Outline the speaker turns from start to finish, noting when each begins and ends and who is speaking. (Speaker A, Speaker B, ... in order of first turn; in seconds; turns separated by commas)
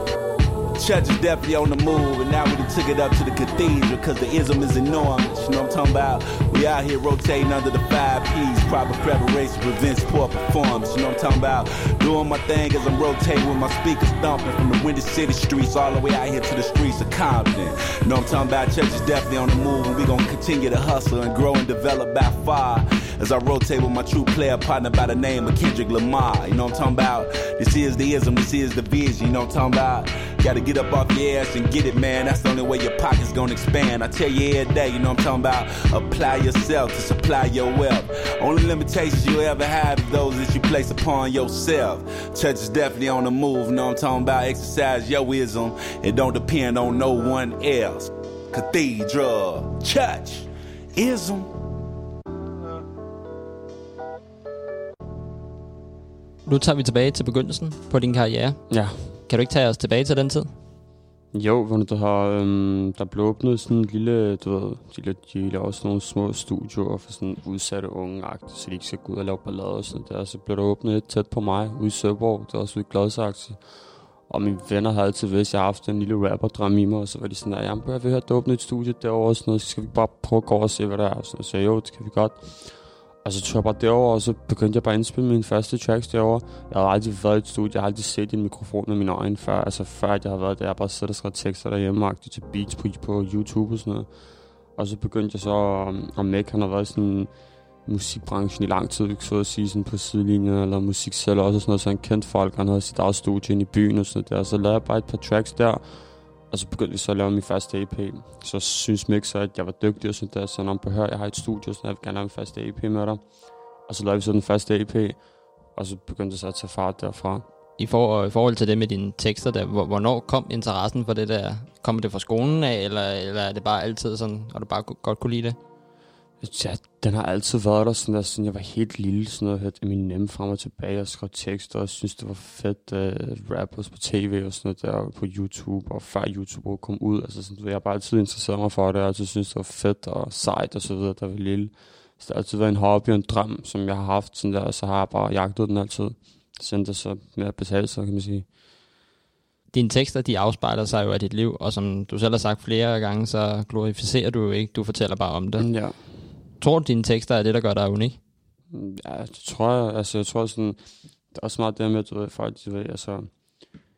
Speaker A: 0.8-51.5, Speaker B: 56.5-58.6, Speaker C: 58.7-59.1, Speaker B: 59.3-60.5, Speaker C: 61.3-73.6, Speaker C: 74.3-82.6, Speaker C: 83.2-94.1, Speaker C: 94.8-97.3, Speaker C: 97.9-105.8, Speaker C: 106.5-113.2, Speaker C: 113.9-115.2, Speaker C: 115.8-117.5, Speaker B: 117.8-125.6, Speaker C: 126.4-148.5, Speaker B: 149.7-155.7, Speaker C: 155.6-155.9, Speaker B: 156.6-158.2, Speaker C: 158.7-160.8, Speaker C: 161.3-163.3